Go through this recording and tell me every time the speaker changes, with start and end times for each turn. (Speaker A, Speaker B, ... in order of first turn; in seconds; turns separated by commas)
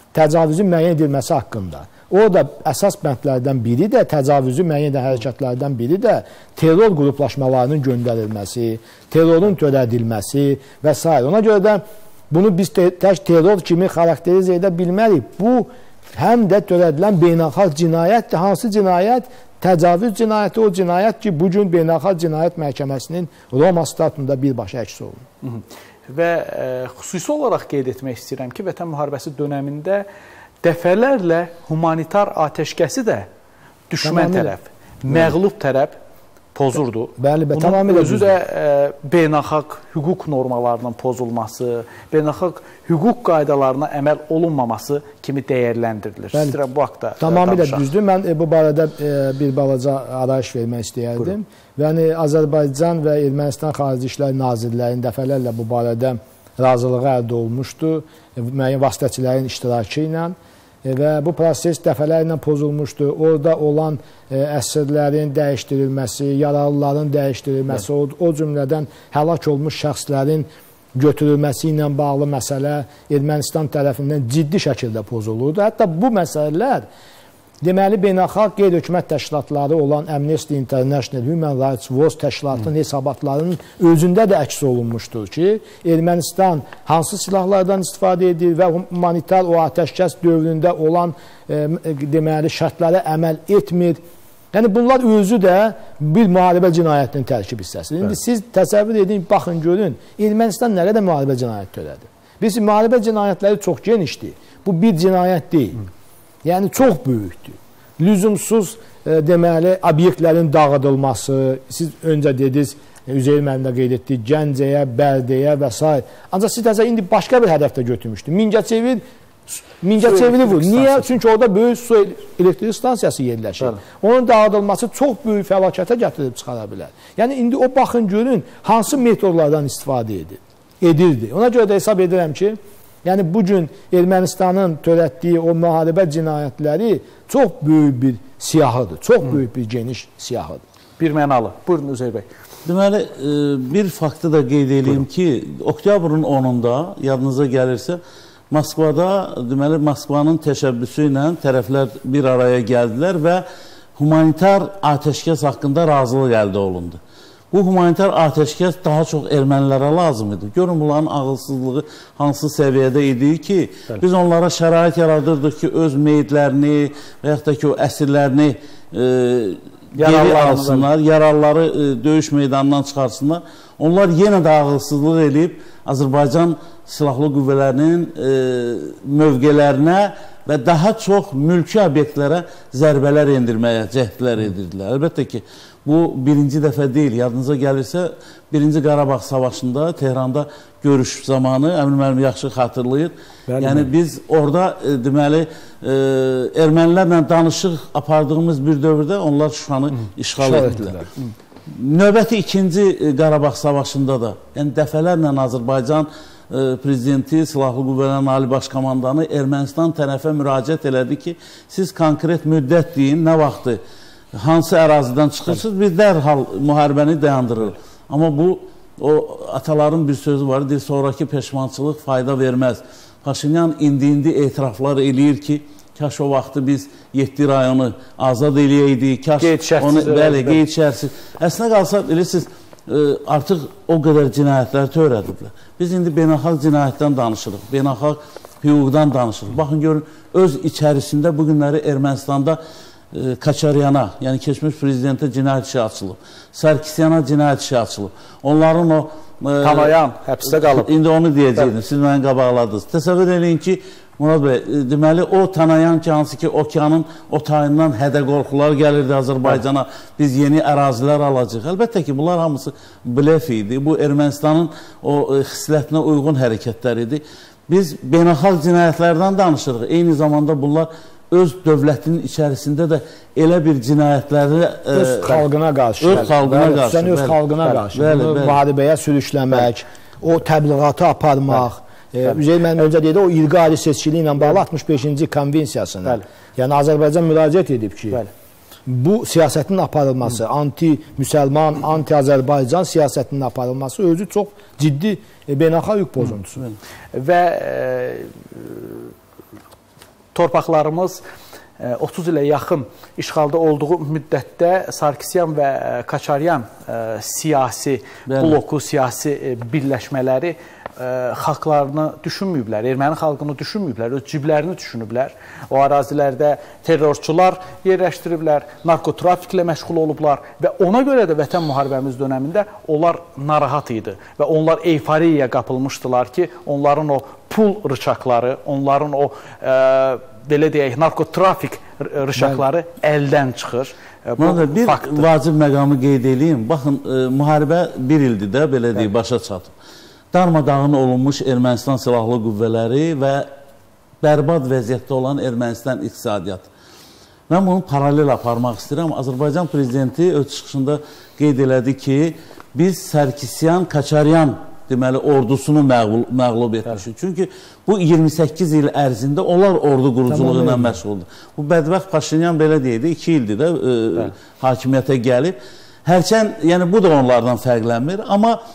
Speaker A: 0.1-25.2, Speaker B: 25.4-30.1, Speaker B: 30.6-33.3, Speaker B: 33.9-36.0, Speaker A: 34.0-34.5, Speaker B: 36.5-47.9, Speaker A: 37.2-38.3, Speaker A: 47.2-76.8, Speaker A: 77.6-94.0, Speaker A: 94.5-105.8, Speaker A: 106.4-140.6, Speaker B: 141.0-142.3, Speaker C: 142.7-148.0, Speaker C: 148.5-153.4, Speaker C: 154.0-157.0, Speaker C: 157.5-201.0, Speaker B: 170.0-170.9, Speaker B: 193.5-193.8, Speaker A: 200.4-201.1, Speaker C: 201.7-213.8, Speaker C: 214.3-242.6, Speaker B: 229.4-230.6, Speaker C: 243.1-275.4, Speaker B: 249.6-250.9, Speaker A: 274.9-288.2, Speaker C: 276.0-278.6, Speaker A: 288.9-296.7, Speaker B: 297.1-299.1, Speaker B: 300.3-301.2, Speaker B: 301.8-335.3, Speaker C: 308.3-308.6, Speaker C: 334.4-339.7, Speaker C: 340.3-343.5, Speaker C: 344.2-346.7, Speaker C: 347.5-368.6, Speaker A: 360.3-361.0